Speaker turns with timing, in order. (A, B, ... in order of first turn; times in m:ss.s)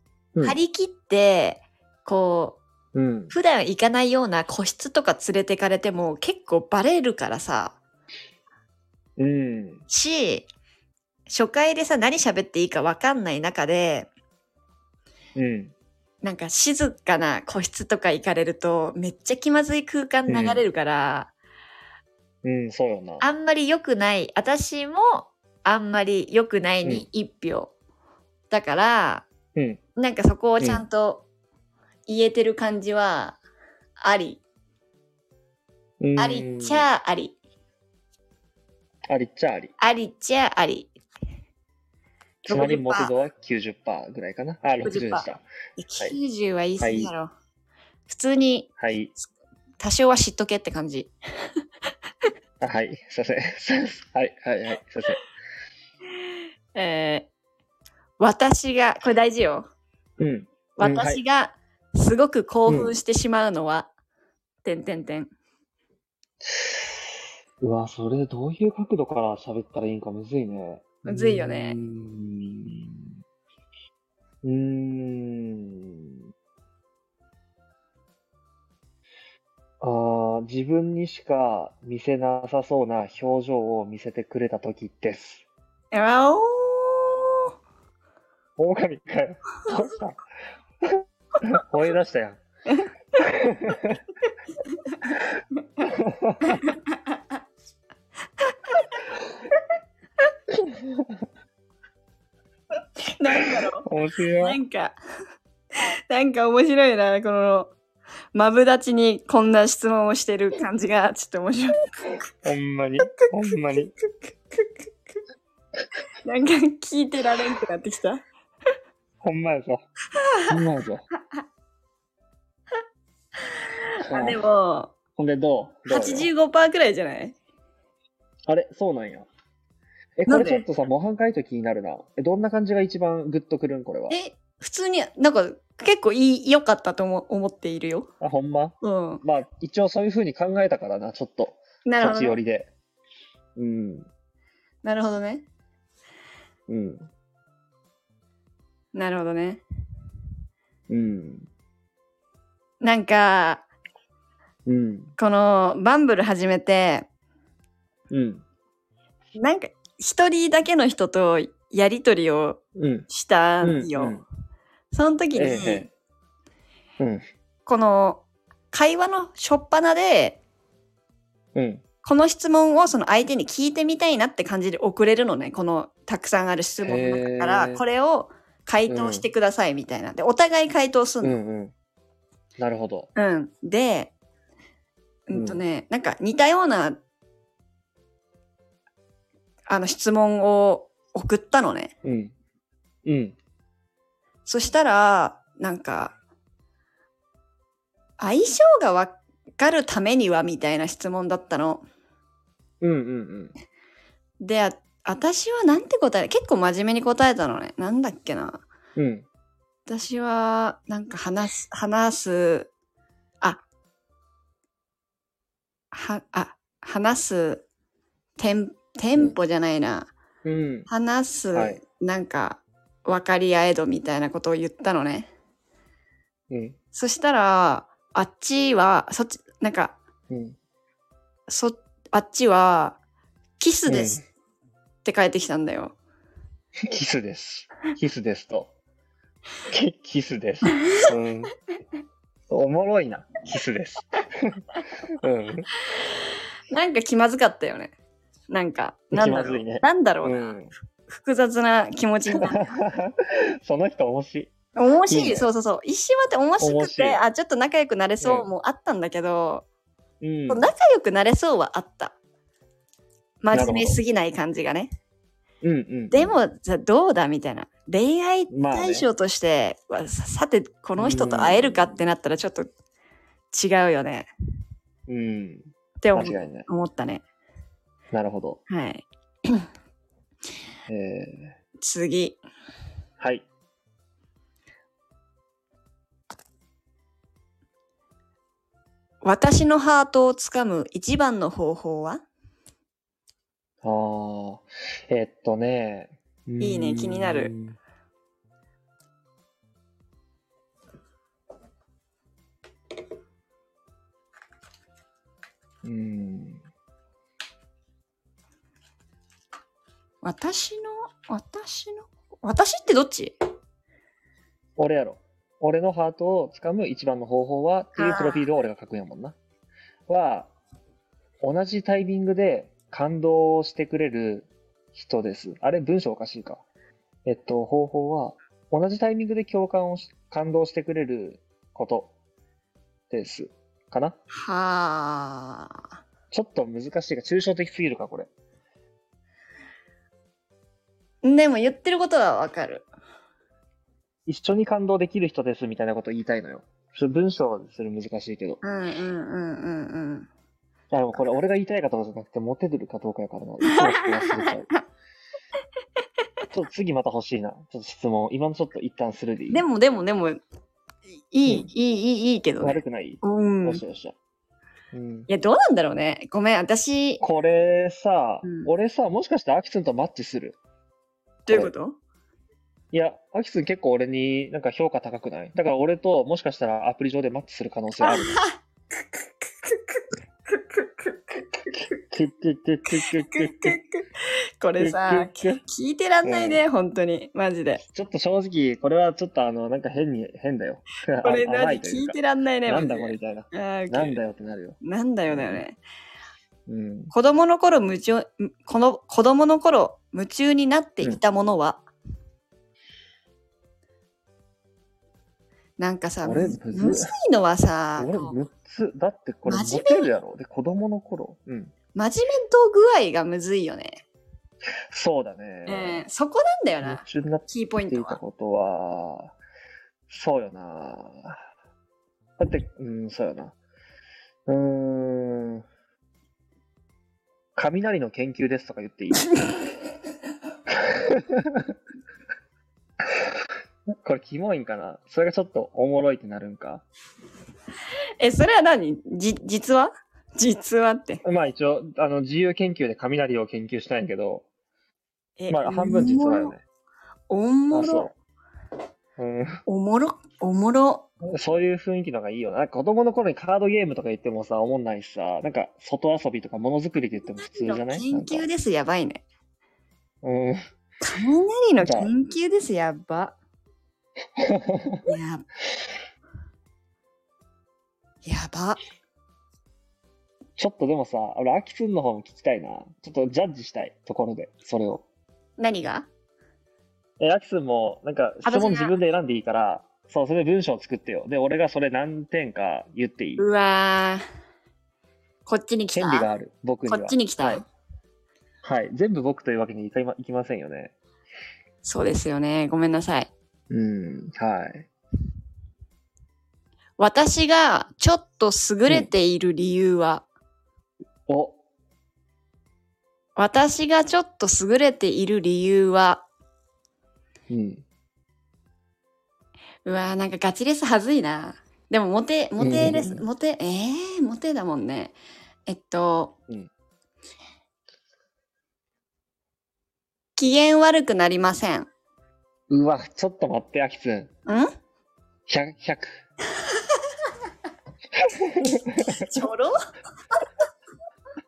0:00.4-0:02.6 A
0:02.9-0:03.4 B
0:03.3-0:07.8 A
0:09.2-0:09.8 B
0:09.9-0:10.5 A
0:11.3-0:14.1 A
0:15.4-0:15.7 B
0:16.2-0:21.3 A
0:20.3-0:20.6 B
0:22.4-0:23.2 B
0:23.2-0:27.7 A
0:28.5-0:29.3 A
0:29.6-0:29.8 B
0:30.0-0:31.3 A
0:30.6-0:30.8 B
0:32.1-0:33.4 A
0:34.0-0:34.4 A
0:36.0-0:36.8 B
0:36.2-0:37.4 A
0:39.1-0:39.7 B
0:39.8-0:40.9 A
0:42.5-0:43.1 A
0:42.5-0:45.4 B
0:44.8-0:47.3 A
0:46.8-0:47.1 B
0:48.1-0:48.7 A
0:48.8-0:49.1 B
0:49.8-0:51.1 A
0:52.6-0:55.2 B
0:56.7-0:57.3 A
0:58.2-0:59.7 A
1:00.2-1:01.2 B
1:00.8-1:03.9 A
1:02.7-1:02.9 B
1:04.6-1:05.3 A
1:06.5-1:06.8 B
1:07.6-1:13.1 B
1:11.0-1:11.8 A
1:14.4-1:16.2 B
1:19.8-1:25.4 B
1:25.9-1:27.4 A
1:28.6-1:30.2 B
1:30.8-1:32.4 B
1:33.2-1:34.0 B
1:34.7-1:35.8 A
1:35.8-1:36.7 B
1:36.4-1:37.2 A
1:38.7-1:39.0 A
1:40.5-1:41.1 B
1:43.1-1:43.9 A
1:43.4-1:44.6 B
1:44.4-1:45.0 A
1:46.1-1:47.7 A
1:48.3-1:51.8 A
1:52.4-1:53.9 B
1:53.1-1:54.9 A
1:56.2-1:58.2 A
1:59.2-1:59.8 B
2:00.2-2:00.6 A
2:00.5-2:01.0 B
2:04.0-2:04.9 A
2:04.0-2:04.4 B
2:05.2-2:06.3 B
2:05.9-2:07.4 A
2:08.5-2:09.3 B
2:10.2-2:14.2 B
2:10.3-2:10.6 A
2:14.1-2:18.1 A
2:18.2-2:22.7 B
2:18.8-2:19.2 A
2:21.8-2:22.4 A
2:23.6-2:24.1 B
2:24.8-2:25.5 A
2:26.7-2:27.1 B
2:28.9-2:29.6 A
2:30.9-2:31.5 B
2:32.8-2:33.6 A
2:34.7-2:35.1 B
2:35.2-2:37.1 A
2:38.1-2:38.4 B
2:39.4-2:44.2 A
2:42.8-2:43.1 B
2:43.6-2:44.2 B
2:44.9-2:45.9 A
2:45.4-2:45.9 B
2:47.7-2:50.4 A
2:51.6-2:51.8 B
2:52.0-3:01.4 A
2:56.8-2:57.8 B
2:58.9-2:59.3 B
3:01.2-3:01.7 B
3:02.6-3:03.1 B
3:03.2-3:04.1 A
3:05.3-3:07.0 A
3:05.3-3:05.6 B
3:09.7-3:11.9 A
3:12.0-3:12.3 B
3:13.0-3:13.4 B
3:14.5-3:16.2 A
3:18.2-3:21.8 A
3:22.8-3:23.5 B
3:24.4-3:28.6 A
3:29.0-3:29.3 B
3:29.9-3:32.7 A
3:35.9-3:37.6 A
3:38.4-3:40.1 A
3:40.4-3:40.9 B
3:40.9-3:45.3 A
3:41.5-3:41.8 B
3:46.5-3:46.8 B
3:46.9-3:50.0 A
3:50.3-3:50.6 B
3:51.5-3:53.0 A
3:53.6-3:54.2 A
3:53.9-3:54.2 B
3:55.0-3:56.0 A
3:56.9-3:58.7 B
3:59.7-4:01.5 B
4:02.5-4:04.6 B
4:05.2-4:05.7 B
4:06.7-4:07.9 A
4:08.5-4:10.6 A
4:09.1-4:10.7 B
4:11.1-4:12.8 A
4:12.4-4:14.5 B
4:14.8-4:19.6 A
4:15.1-4:15.5 B
4:16.6-4:17.2 B
4:18.2-4:18.5 B
4:20.2-4:20.7 B
4:20.5-4:22.2 A
4:23.4-4:24.9 A
4:23.5-4:24.0 B
4:25.6-4:26.4 B
4:26.1-4:32.7 A
4:28.5-4:29.1 B
4:31.0-4:32.0 B
4:33.5-4:34.3 A
4:35.1-4:36.7 B
4:36.0-4:37.2 A
4:38.1-4:38.6 B
4:38.7-4:39.6 A
4:40.9-4:41.5 B
4:41.8-4:42.4 A
4:43.2-4:43.4 B
4:49.2-4:52.2 A
4:53.8-4:57.8 B
4:56.6-4:57.5 A
5:05.8-5:06.6 B
5:10.2-5:13.4 A
5:14.8-5:19.4 B
5:18.0-5:18.4 A
5:20.1-5:20.5 B
5:21.4-5:26.6 B
5:27.2-5:32.1 B
5:33.1-5:34.2 B
5:34.3-5:35.8 A
5:36.3-5:38.3 B
5:41.2-5:42.9 A
5:44.3-5:48.6 B
5:48.6-5:50.3 A
5:50.9-5:54.7 B
5:53.6-5:54.8 A
5:56.5-5:59.7 B
5:59.5-6:00.4 A
6:01.3-6:03.8 A
6:02.6-6:04.2 B
6:04.9-6:05.3 B
6:05.3-6:07.2 A
6:07.2-6:10.6 B
6:08.4-6:08.7 A
6:11.5-6:12.0 A
6:12.9-6:18.4 B
6:18.0-6:18.6 A
6:19.6-6:22.0 A
6:21.7-6:23.8 B
6:22.9-6:24.1 A
6:24.6-6:27.8 A
6:24.8-6:25.6 B
6:26.2-6:26.6 B
6:27.8-6:34.8 B
6:31.2-6:34.2 A
6:34.8-6:35.8 A
6:35.3-6:35.6 B
6:36.7-6:37.1 B
6:37.1-6:41.8 A
6:45.8-6:48.4 A
6:46.2-6:47.1 B
6:48.0-6:51.7 B
6:49.5-6:50.2 A
6:51.9-6:54.0 A
6:54.9-6:56.0 B
6:55.7-6:58.2 A
6:56.8-6:59.3 B
7:00.1-7:01.4 B
7:02.4-7:03.6 B
7:04.5-7:05.6 B
7:07.6-7:09.3 B
7:10.7-7:11.7 B
7:14.0-7:16.8 B
7:18.2-7:21.2 A
7:21.2-7:24.4 B
7:25.4-7:26.5 A
7:25.5-7:26.6 B
7:27.3-7:28.1 A
7:27.7-7:28.1 B
7:29.2-7:29.6 B
7:29.7-7:31.1 A
7:31.2-7:38.5 B
7:37.3-7:39.2 A
7:40.2-7:40.6 B
7:41.0-7:43.4 A
7:41.8-7:42.1 B
7:44.4-7:45.0 B
7:45.1-7:45.4 A
7:48.2-7:48.8 A
7:50.6-7:55.0 B
7:55.6-7:56.1 A
7:57.2-8:03.4 B
7:58.4-7:58.9 A
8:03.4-8:04.2 A
8:05.5-8:06.3 A
8:05.9-8:07.6 B
8:06.9-8:07.6 A
8:08.6-8:10.9 B
8:11.8-8:13.3 A
8:13.7-8:14.9 B
8:17.0-8:20.2 A
8:21.3-8:21.6 B
8:23.4-8:26.2 A
8:27.5-8:27.8 B
8:29.8-8:35.2 A
8:32.6-8:33.2 B
8:35.7-8:36.4 A
8:40.4-8:41.9 A
8:42.7-8:44.3 B
8:45.5-8:46.2 B
8:48.2-8:49.3 B
8:49.0-8:49.7 A